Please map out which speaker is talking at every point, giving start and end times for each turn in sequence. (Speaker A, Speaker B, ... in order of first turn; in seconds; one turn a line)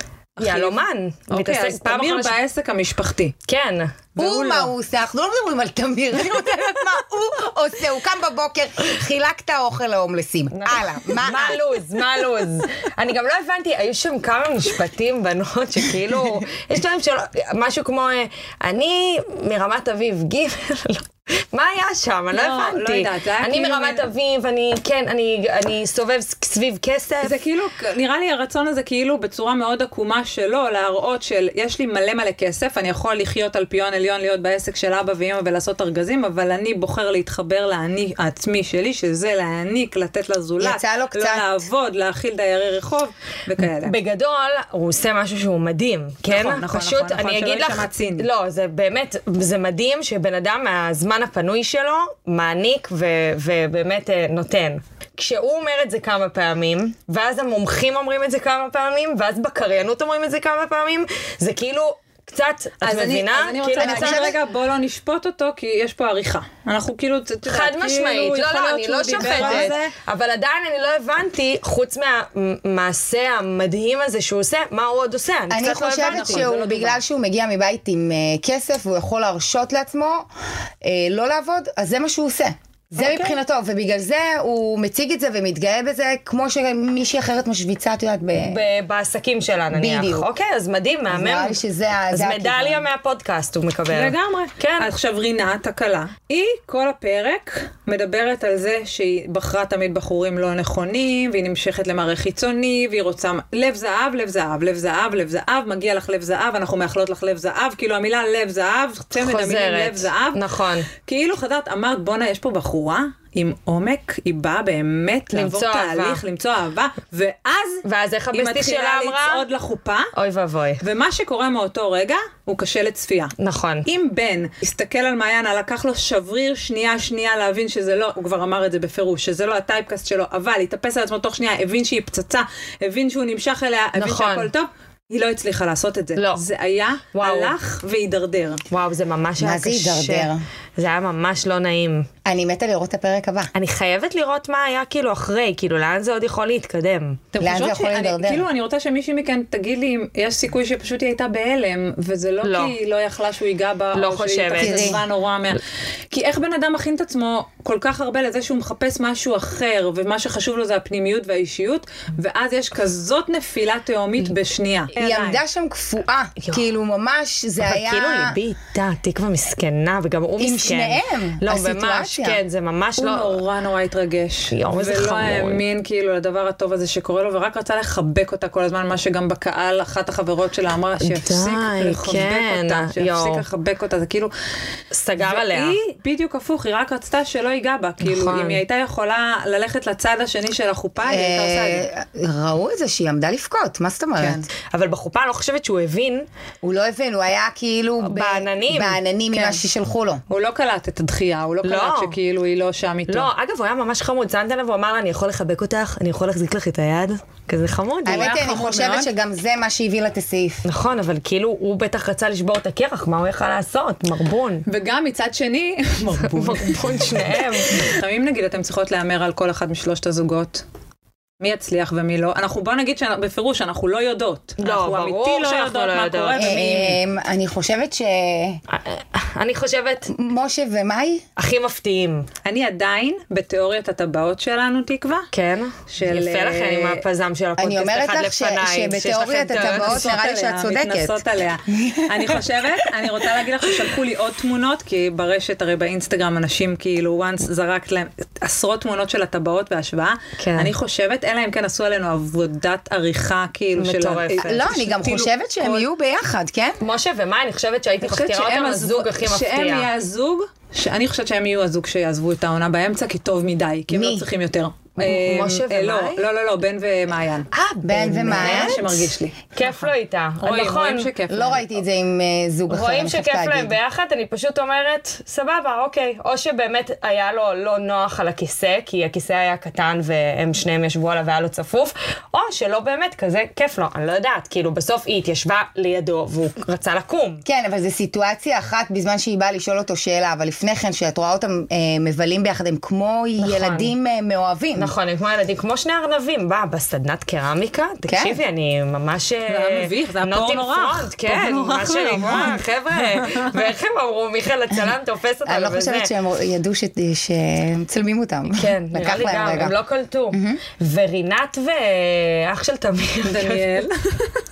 Speaker A: 0.4-3.3
Speaker B: 0.4-2.4
Speaker B: 3.5-4.0
Speaker A: 4.2-4.7
Speaker C: 4.2-11.6
Speaker B: 10.5-27.4
Speaker A: 22.3-24.1
Speaker A: 27.2-44.0
Speaker C: 40.6-41.6
Speaker B: 43.8-64.3
Speaker A: 46.2-48.2
Speaker A: 62.8-69.9
Speaker C: 63.8-64.4
Speaker B: 67.5-76.8
Speaker C: 69.1-69.7
Speaker C: 75.5-80.3
Speaker A: 76.0-77.0
Speaker C: 80.8-88.6
Speaker B: 82.9-83.4
Speaker B: 88.4-91.6
Speaker C: 89.7-90.3
Speaker C: 91.1-92.8
Speaker B: 92.1-94.9
Speaker A: 93.9-110.4
Speaker B: 109.1-110.9
Speaker A: 111.0-120.1
Speaker B: 115.3-116.2
Speaker B: 117.8-119.4
Speaker B: 120.1-120.8
Speaker A: 120.8-123.3
Speaker B: 123.4-123.8
Speaker A: 123.8-138.6
Speaker B: 134.0-134.5
Speaker B: 136.2-136.4
Speaker B: 137.1-137.5
Speaker B: 138.7-142.1
Speaker C: 139.4-140.4
Speaker C: 142.2-143.5
Speaker B: 143.5-147.2
Speaker A: 147.3-155.6
Speaker C: 147.4-148.5
Speaker B: 152.4-152.7
Speaker B: 153.9-155.0
Speaker C: 154.6-155.0
Speaker A: 156.1-165.4
Speaker C: 164.9-168.4
Speaker B: 167.6-173.4
Speaker C: 170.4-172.4
Speaker A: 173.0-184.3
Speaker B: 174.5-175.6
Speaker B: 181.0-183.4
Speaker B: 184.9-185.8
Speaker A: 185.2-191.9
Speaker B: 188.0-188.6
Speaker C: 191.0-194.5
Speaker B: 194.7-196.2
Speaker C: 196.6-200.2
Speaker B: 198.0-199.0
Speaker A: 200.3-203.3
Speaker B: 201.6-202.2
Speaker B: 203.1-208.4
Speaker C: 208.0-210.6
Speaker A: 208.1-209.1
Speaker B: 210.6-214.6
Speaker A: 214.7-220.6
Speaker B: 216.3-217.9
Speaker A: 221.4-227.0
Speaker B: 224.6-226.9
Speaker C: 226.4-228.6
Speaker B: 228.7-230.1
Speaker C: 230.1-231.2
Speaker B: 231.4-232.3
Speaker A: 232.4-235.3
Speaker B: 235.3-240.1
Speaker A: 235.9-237.0
Speaker C: 237.6-242.4
Speaker A: 239.6-255.8
Speaker B: 250.4-250.7
Speaker B: 253.8-254.6
Speaker C: 254.4-256.8
Speaker B: 256.8-259.9
Speaker A: 258.0-267.5
Speaker C: 263.9-264.3
Speaker B: 265.0-266.2
Speaker B: 267.5-268.9
Speaker C: 267.8-269.0
Speaker A: 268.3-269.8
Speaker B: 269.5-271.1
Speaker A: 270.4-271.7
Speaker C: 271.3-273.8
Speaker B: 272.7-287.4
Speaker C: 287.4-294.9
Speaker B: 293.4-293.9
Speaker B: 294.8-306.1
Speaker C: 298.1-298.4
Speaker A: 299.5-302.6
Speaker A: 303.2-303.5
Speaker C: 305.4-309.7
Speaker B: 308.5-313.8
Speaker C: 310.3-310.6
Speaker A: 313.2-314.4